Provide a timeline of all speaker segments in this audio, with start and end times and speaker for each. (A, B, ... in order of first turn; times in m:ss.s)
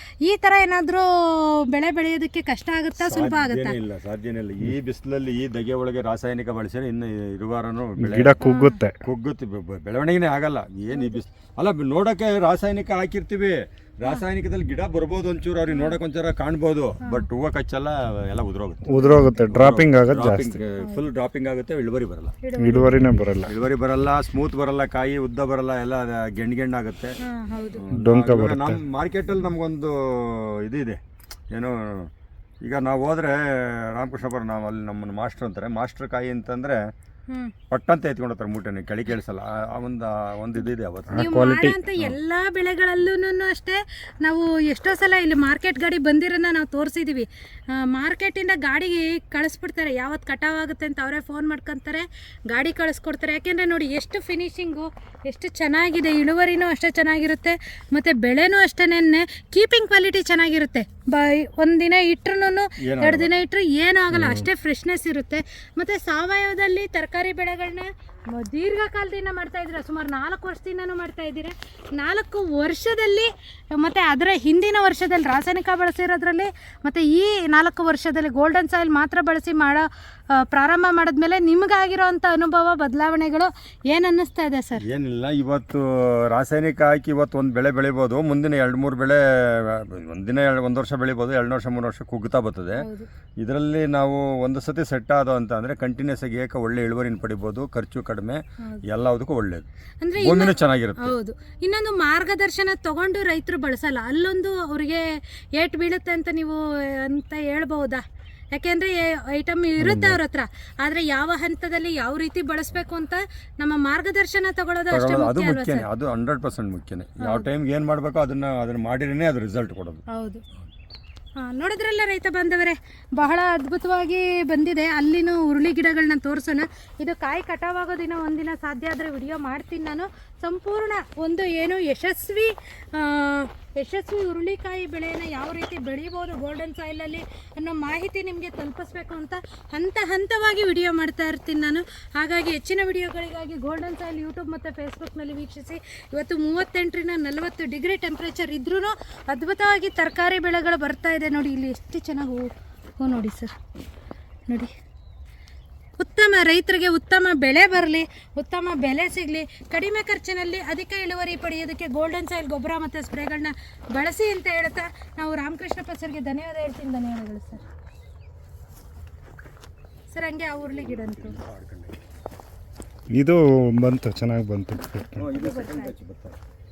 0:00.2-0:03.8 A
0:03.0-0:08.5 B
0:08.0-0:09.0 C
0:08.4-0:08.8 A
0:09.0-0:19.0 B
0:10.9-0:11.2 A
0:15.7-0:16.0 A
0:18.8-0:20.6 C
0:18.9-0:19.5 A
0:19.5-0:22.4 B
0:20.8-0:21.0 A
0:22.4-0:23.1 A
0:22.6-0:23.5 C
0:23.4-0:27.2 B
0:27.2-0:27.8 A
0:27.7-0:31.0 B
0:27.9-0:28.8 C
0:31.5-0:32.1 B
0:32.6-0:36.8 B
0:37.3-0:37.5 A
0:37.7-0:41.3 B
0:41.1-0:41.8 C
0:41.1-1:24.8 A
1:02.8-1:03.3 B
1:04.1-1:04.5 C
1:24.8-1:32.9 B
1:32.8-1:33.1 A
1:33.4-1:41.2 B
1:40.0-1:48.0 A
1:48.5-1:55.9 A
1:49.8-1:50.2 B
1:54.9-2:00.0 B
2:00.1-2:00.4 A
2:01.4-2:32.4 A
2:33.0-2:33.5 A
2:36.0-2:47.6 A
2:50.1-2:51.4 A
2:50.6-2:52.1 B
2:53.1-2:55.2 C
2:55.2-2:56.4 B
2:55.3-2:55.9 A